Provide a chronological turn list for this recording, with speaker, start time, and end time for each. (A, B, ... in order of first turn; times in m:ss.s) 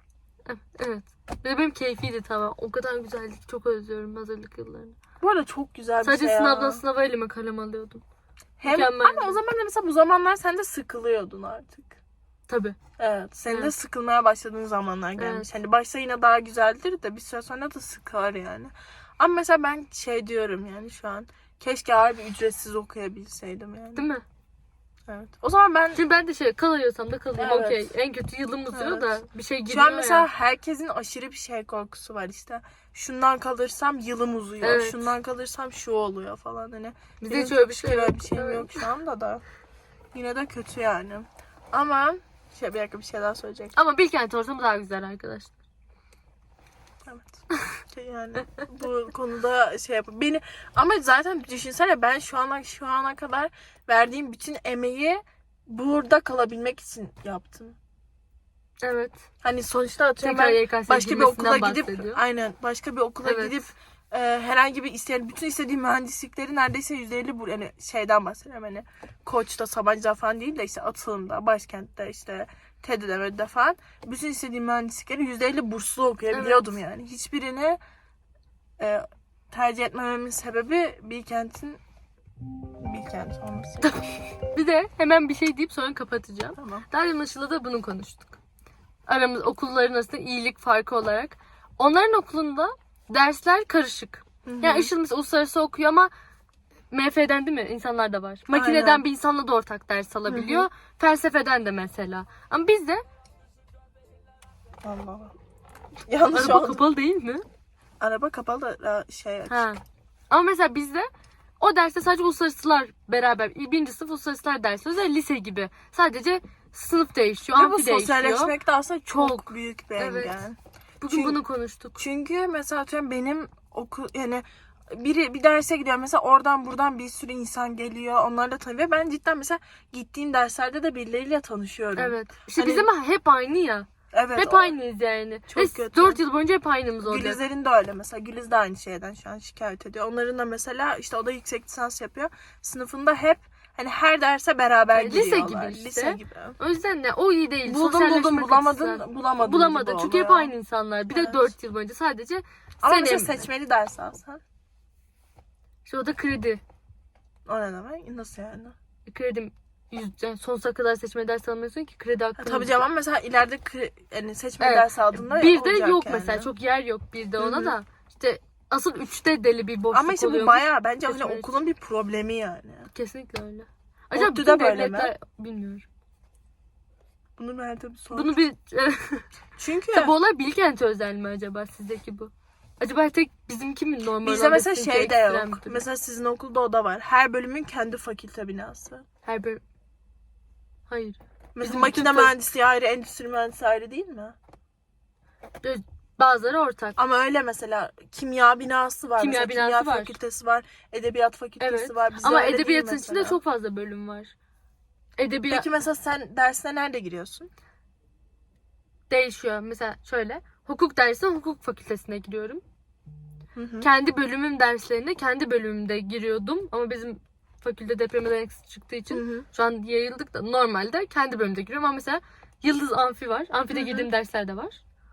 0:00.4-0:05.0 A
0:05.2-0:06.8 B
0:06.0-0:08.0 A
0:08.6-0:12.0 B
0:08.6-0:09.4 A
0:12.5-0:12.8 A
0:13.0-0:24.1 B
0:15.2-0:15.5 A
0:23.9-0:24.2 A
0:25.1-0:26.0 B
0:25.9-0:30.3 A
0:27.3-0:27.9 B
0:28.7-0:39.4 B
0:34.6-0:35.1 A
0:37.2-0:38.9 A
0:40.1-0:43.8 B
0:43.7-0:45.5 A
0:47.0-0:57.8 B
0:58.8-0:59.2 A
0:59.4-1:17.8 B
1:00.2-1:02.2 A
1:03.2-1:03.7 A
1:16.3-1:16.7 A
1:18.8-1:21.8 B
1:22.8-1:23.9 B
1:23.8-1:28.4 A
1:26.6-1:26.9 B
1:29.1-1:36.1 A
1:34.4-1:34.9 B
1:36.9-1:43.0 A
1:38.5-1:39.0 B
1:40.3-1:40.7 B
1:44.8-1:45.3 B
1:46.1-1:46.8 B
1:46.3-1:47.4 A
1:48.0-1:49.7 B
1:49.5-1:51.1 A
1:51.6-2:00.5 A
1:57.5-2:00.6 B
2:01.0-2:02.0 A
2:01.1-2:01.4 B
2:02.0-2:12.9 B
2:12.0-2:17.4 A
2:14.1-2:14.8 B
2:15.5-2:16.2 B
2:17.0-2:26.6 B
2:24.9-2:33.5 A
2:27.6-2:30.5 B
2:31.1-2:31.5 B
2:32.8-2:34.4 B
2:35.8-2:36.6 A
2:37.5-2:38.8 B
2:39.1-2:42.9 A
2:42.4-2:46.5 B
2:44.6-2:51.6 A
2:47.4-2:47.8 B
2:49.9-2:52.9 B
2:52.9-2:55.9 A
2:54.1-2:55.1 B
2:57.4-2:58.4 B
2:58.1-2:59.3 A
2:59.6-3:00.1 B
2:59.9-3:05.8 A
3:04.2-3:09.0 B
3:09.2-3:09.6 A
3:10.9-3:12.4 A
3:11.6-3:14.3 B
3:15.6-3:17.0 A
3:17.0-3:23.4 B
3:19.2-3:20.2 A
3:21.6-3:24.3 A
3:25.2-3:25.7 A
3:25.5-3:27.5 B
3:29.1-3:32.6 A
3:33.5-3:33.9 B
3:33.8-3:44.8 A
3:39.1-3:39.4 B
3:43.7-3:44.1 B